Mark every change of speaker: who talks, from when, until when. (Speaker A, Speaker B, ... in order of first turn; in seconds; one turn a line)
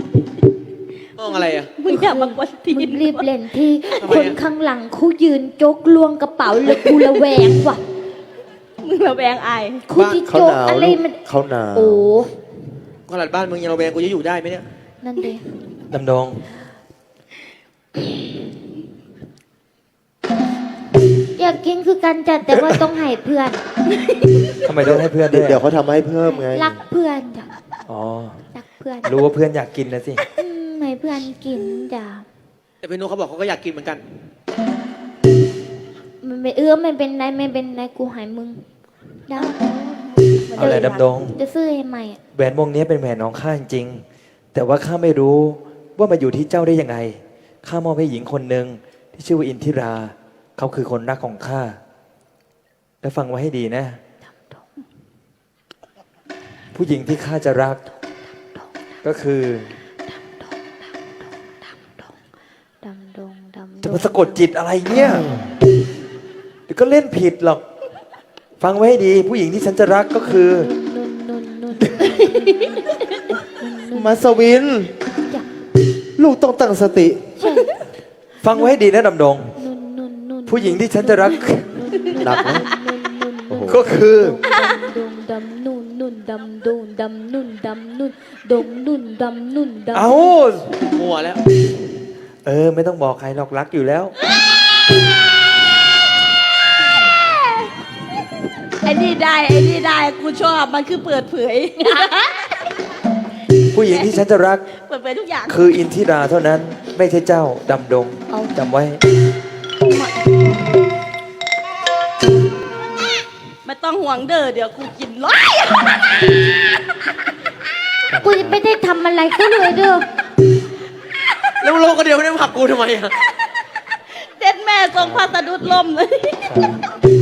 Speaker A: 1.2-1.7
Speaker B: 1.7-3.3
Speaker C: 1.9-7.8
Speaker A: 4.0-4.4
Speaker B: 8.8-9.8
Speaker C: 9.9-11.2
Speaker D: 10.2-12.1
Speaker C: 11.7-12.3
Speaker A: 13.1-14.7
Speaker C: 15.0-15.4
Speaker E: 15.9-16.5
Speaker C: 21.4-23.6
Speaker E: 24.6-25.6
Speaker D: 24.8-26.8
Speaker C: 26.3-27.5
Speaker E: 27.9-28.4
Speaker C: 28.5-29.2
Speaker E: 29.0-30.2
Speaker C: 30.4-32.2
Speaker A: 32.8-34.0
Speaker C: 36.2-38.6
Speaker C: 39.3-39.5
Speaker B: 39.4-41.1
Speaker E: 40.6-41.4
Speaker C: 40.6-42.2
Speaker E: 42.3-51.8
Speaker E: 53.0-54.0
Speaker E: 56.7-57.8
Speaker E: 59.0-59.7
Speaker C: 60.1-62.1
Speaker C: 62.8-64.4
Speaker E: 63.8-65.3
Speaker E: 66.7-67.6
Speaker E: 68.6-70.7
Speaker C: 70.3-74.1
Speaker E: 71.8-72.1
Speaker D: 73.9-74.9
Speaker D: 76.2-77.3
Speaker C: 77.4-77.7
Speaker E: 78.4-79.6
Speaker C: 79.5-90.3
Speaker E: 80.5-81.7
Speaker D: 82.2-82.7
Speaker D: 83.5-83.9
Speaker E: 83.7-84.3
Speaker E: 89.9-90.7
Speaker A: 90.8-91.4
Speaker E: 92.4-94.1
Speaker B: 98.8-101.9
Speaker E: 103.7-104.6
Speaker B: 104.8-105.6
Speaker E: 105.5-109.0
Speaker B: 109.9-110.1
Speaker B: 113.6-116.0
Speaker E: 118.1-118.6
Speaker C: 118.2-120.1
Speaker A: 121.6-123.1
Speaker B: 124.4-126.7
Speaker E: 124.9-125.2
Speaker E: 126.4-126.8